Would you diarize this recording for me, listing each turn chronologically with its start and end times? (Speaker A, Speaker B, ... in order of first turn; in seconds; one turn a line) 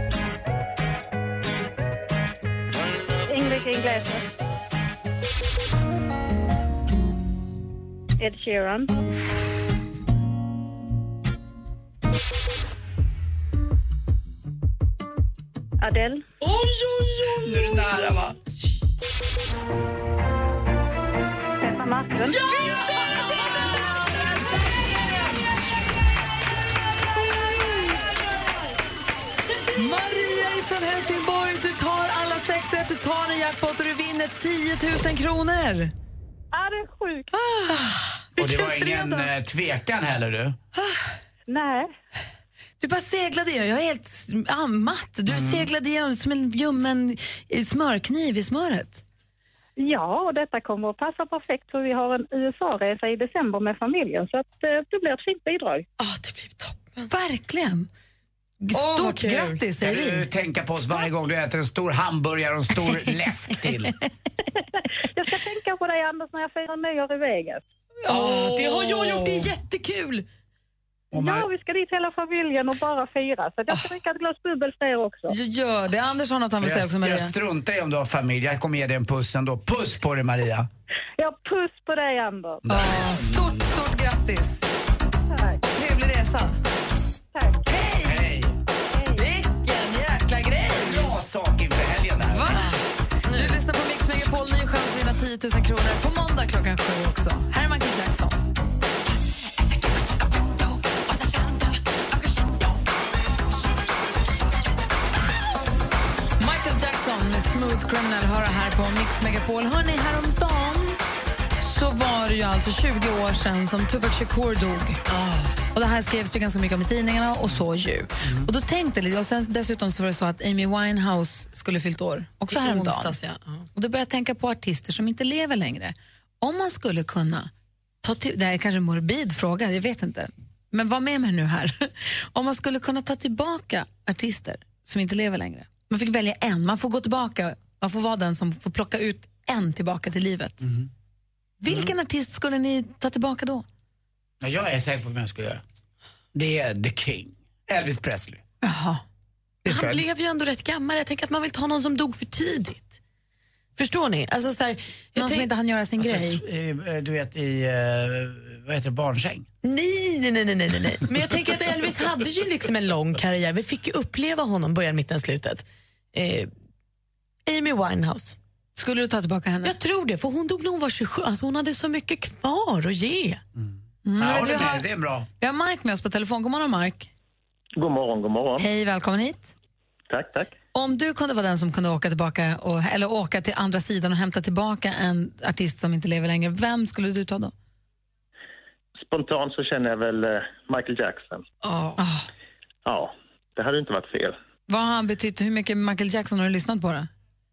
Speaker A: 3.3-4.3
Speaker A: 8.2-9.0
Speaker A: 15.8-16.3
Speaker B: 16.4-17.7
Speaker C: 17.4-18.4
Speaker A: 21.6-22.4
Speaker D: 29.7-35.9
Speaker A: 36.5-37.3
Speaker D: 37.6-39.2
Speaker C: 38.4-40.6
Speaker A: 41.5-41.9
Speaker D: 42.8-49.0
Speaker C: 45.3-45.6
Speaker A: 49.8-55.9
Speaker B: 56.0-57.1
Speaker D: 57.1-57.9
Speaker D: 58.7-60.2
Speaker B: 58.7-59.6
Speaker C: 59.8-63.9
Speaker A: 65.0-67.6
Speaker D: 68.0-69.5
Speaker B: 68.1-70.3
Speaker C: 71.1-71.5
Speaker A: 71.2-75.3
Speaker D: 75.3-77.3
Speaker C: 76.6-80.7
Speaker A: 81.2-82.7
Speaker C: 82.6-83.7
Speaker D: 82.7-84.7
Speaker A: 85.3-85.6
Speaker D: 85.6-86.6
Speaker A: 87.3-87.9
Speaker D: 87.7-88.0
Speaker C: 88.0-88.6
Speaker A: 88.9-89.2
Speaker D: 89.2-91.1
Speaker C: 90.7-92.6
Speaker D: 92.2-92.7
Speaker B: 92.5-93.6
Speaker D: 93.3-98.4
Speaker B: 101.1-102.7
Speaker D: 106.4-111.0
Speaker D: 111.6-115.0
Speaker B: 115.1-115.6
Speaker D: 115.7-123.2
Speaker B: 122.5-123.7
Speaker D: 123.7-127.5
Speaker D: 128.0-140.7
Speaker C: 140.6-140.9
Speaker D: 141.6-143.7
Speaker C: 144.4-145.6
Speaker C: 146.3-148.4
Speaker D: 148.6-149.0
Speaker C: 149.7-150.1
Speaker B: 149.7-153.0
Speaker B: 153.8-155.5
Speaker D: 155.2-156.4
Speaker C: 156.0-159.5
Speaker B: 159.6-166.5
Speaker B: 167.5-168.4
Speaker D: 168.8-169.8
Speaker B: 169.6-173.4
Speaker C: 173.6-175.3
Speaker D: 174.1-174.9
Speaker D: 175.4-177.1
Speaker E: 177.8-178.7
Speaker D: 178.6-179.5
Speaker E: 180.1-180.5
Speaker D: 180.7-187.5
Speaker E: 189.0-191.4
Speaker B: 191.6-192.0
Speaker D: 192.0-192.2
Speaker E: 192.9-194.4
Speaker D: 194.7-197.1